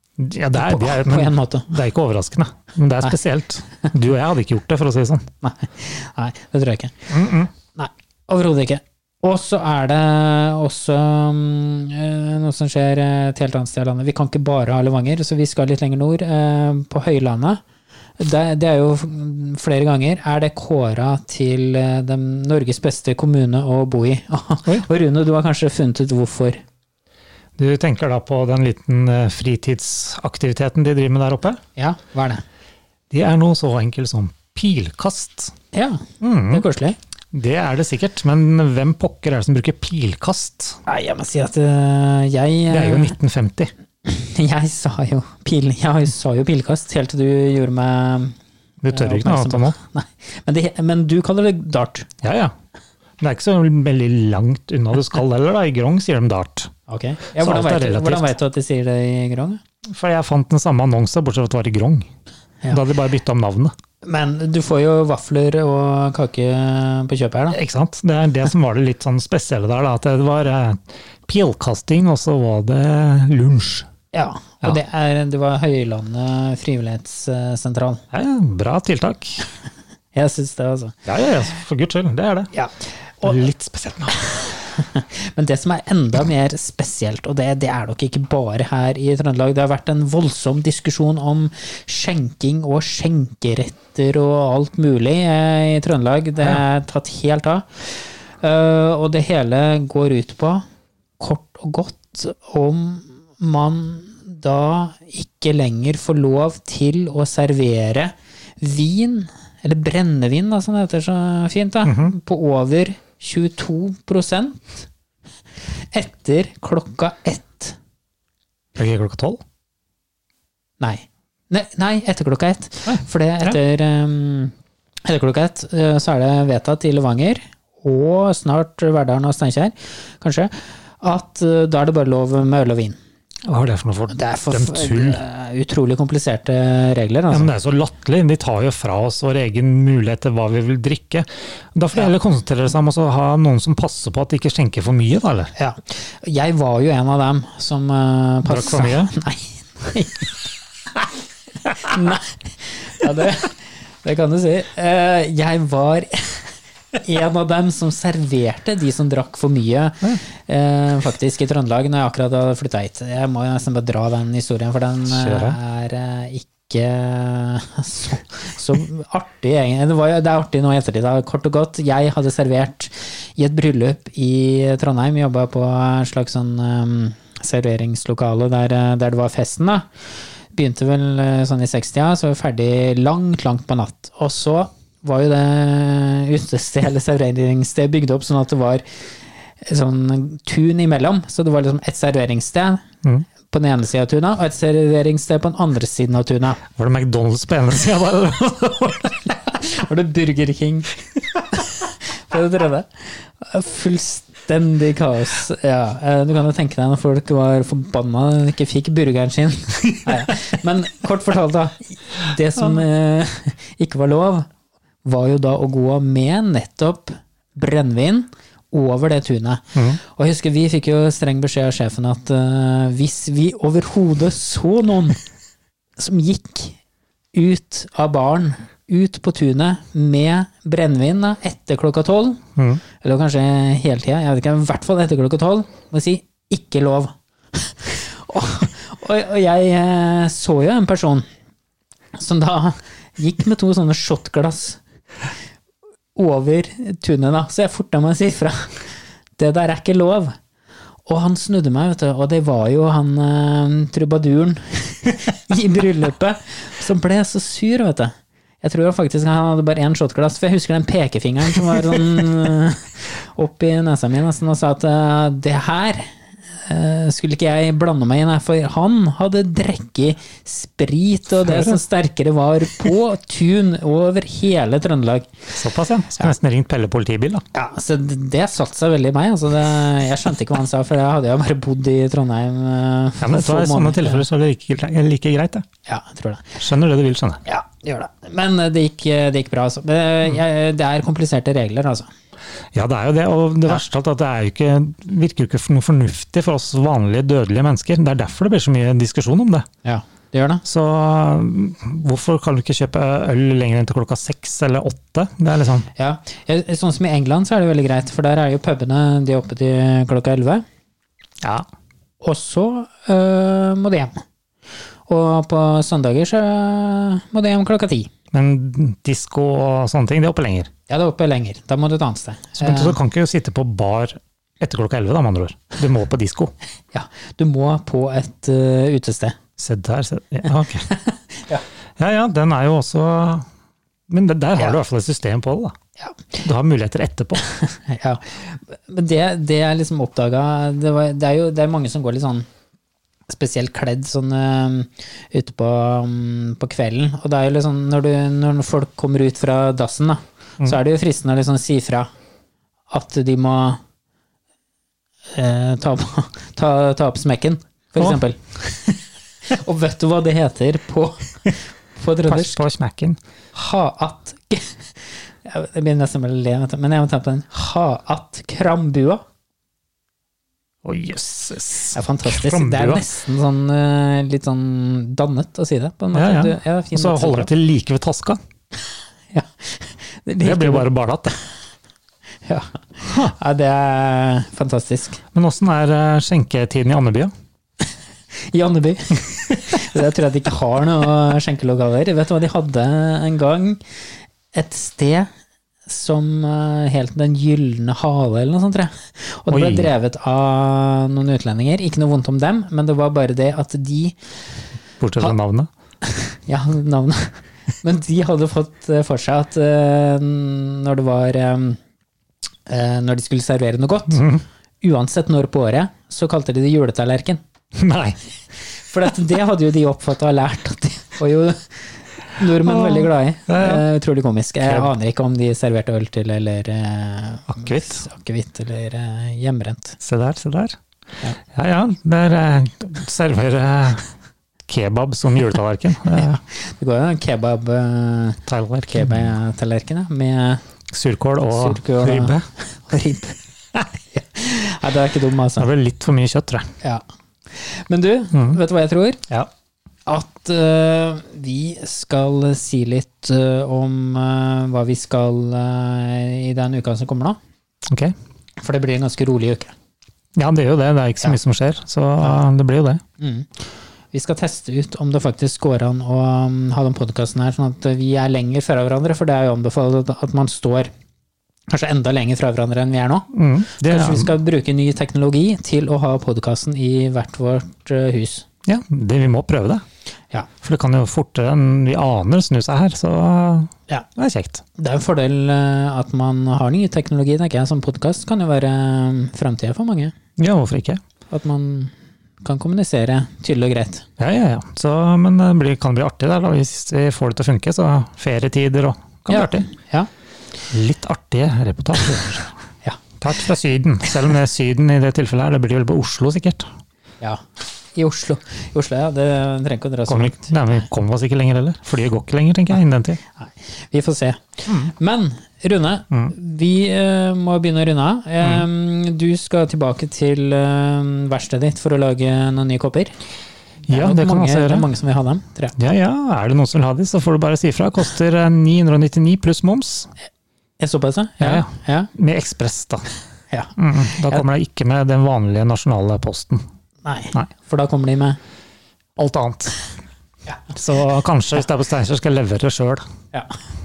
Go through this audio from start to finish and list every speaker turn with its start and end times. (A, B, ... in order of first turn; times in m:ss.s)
0:00.2-0:05.2 A
0:00.5-0:01.7 B
0:05.4-0:07.1 B
0:07.1-0:07.5 A
0:07.8-0:17.6 B
0:18.2-0:26.6 B
0:27.6-0:31.6 A
0:31.8-0:32.4 B
0:33.1-0:35.5 A
0:35.7-0:37.0 B
0:36.2-0:36.7 A
0:37.3-0:40.8 A
0:40.9-0:43.2 B
0:42.7-0:43.7 A
0:44.0-0:48.4 B
0:48.8-0:49.8 A
0:48.9-0:52.1 B
0:52.2-0:52.5 A
0:53.2-0:56.7 A
0:56.9-0:59.6 B
0:57.4-0:58.3 A
0:59.8-1:02.1 A
1:02.7-1:03.7 A
1:04.0-1:07.6 B
1:07.5-1:13.9 A
1:14.1-1:18.0 B
1:18.1-1:19.4 A
1:20.1-1:21.0 B
1:21.1-1:22.5 A
1:22.5-1:23.5 B
1:23.2-1:24.4 A
1:24.3-1:40.6 B
1:41.2-1:54.9 B
1:51.8-1:52.2 A
1:55.7-1:57.8 B
1:58.8-1:59.4 A
2:00.8-2:04.5 B
2:02.9-2:03.6 A
2:05.1-2:13.0 B
2:13.4-2:15.2 A
2:14.1-2:17.5 B
2:17.3-2:25.5 A
2:25.6-2:30.3 B
2:28.4-2:29.1 A
2:31.8-2:59.9 B
2:45.1-2:45.6 A
3:00.5-3:08.8 B
3:09.6-3:12.8 B
3:13.5-3:16.6 B
3:16.8-3:19.4 A
3:19.6-3:21.0 B
3:21.5-3:34.5 B
3:35.0-3:45.2 B
3:46.0-3:46.8 B
3:47.3-3:52.4 B
3:52.6-3:52.8 A
3:53.0-4:01.2 B
4:02.2-4:04.8 B
4:06.2-4:08.8 B
4:09.4-4:10.3 B
4:11.1-4:26.1 B
4:26.6-4:35.4 B
4:31.4-4:31.8 A
4:35.5-4:37.4 A
4:37.5-4:44.2 B
4:43.2-4:45.6 A
4:45.9-4:46.6 B
4:46.6-4:47.4 A
4:47.4-4:52.1 B
4:52.7-4:59.7 A
4:59.8-5:00.6 B
5:00.6-5:05.9 A
5:06.0-5:10.6 B
5:12.2-5:14.1 B
5:15.1-5:18.1 B
5:18.3-5:20.7 A
5:20.9-5:23.0 B
5:22.6-5:26.5 A
5:26.9-5:29.4 B
5:29.6-5:30.9 A
5:30.9-5:31.6 B
5:32.0-5:33.4 A
5:34.1-5:35.7 A
5:36.4-5:37.4 A
5:37.7-5:42.5 B
5:43.3-5:52.1 B
5:52.9-5:53.8 B
5:55.3-5:59.0 B
5:59.5-6:02.6 B
6:02.3-6:03.2 A
6:03.6-6:04.9 B
6:05.4-6:09.2 B
6:10.8-6:13.0 A
6:11.9-6:17.5 B
6:16.1-6:18.4 A
6:19.3-6:20.9 B
6:20.4-6:21.4 A
6:22.5-6:25.2 B
6:23.0-6:23.3 A
6:25.3-6:27.3 A
6:28.5-6:33.8 B
6:34.5-6:35.3 B
6:35.9-6:44.2 B
6:39.5-6:39.9 A
6:45.0-6:45.7 A
6:46.0-6:51.8 B
6:52.7-6:54.2 B
6:54.1-6:54.4 A
6:54.8-6:57.4 B
6:57.8-6:58.2 A
6:58.8-7:10.0 B
7:02.6-7:03.8 A
7:04.6-7:04.9 A
7:07.5-7:08.0 A
7:10.0-7:10.8 A
7:11.5-7:14.1 A
7:14.7-7:16.4 A
7:16.1-7:20.6 B
7:18.5-7:19.3 A
7:20.9-7:22.5 A
7:21.5-7:23.4 B
7:24.1-7:25.7 B
7:25.6-7:26.7 A
7:27.6-7:29.2 B
7:28.3-7:28.6 A
7:30.1-7:37.4 B
7:38.6-7:39.7 B
7:40.4-7:43.0 A
7:43.2-7:43.5 B
7:44.1-7:50.9 B
7:51.7-7:53.3 B
7:53.3-7:54.4 A
7:53.8-7:58.4 B
7:58.7-7:59.8 A
8:00.6-8:04.6 A
8:04.8-8:10.1 B
8:10.4-8:11.0 A
8:11.3-8:14.0 B
8:14.2-8:19.7 A
8:19.3-8:20.1 B
8:20.7-8:22.5 A
8:23.2-8:26.7 A
8:28.0-8:30.5 B
8:30.1-8:33.2 A
8:33.4-8:43.1 B
8:43.9-8:44.9 A
8:43.9-8:45.8 B
8:45.8-8:50.1 A
8:50.8-8:52.1 B
8:51.4-8:53.1 A
8:53.8-8:56.6 A
8:57.0-8:58.4 B
8:59.2-8:59.8 A
9:00.7-9:03.0 A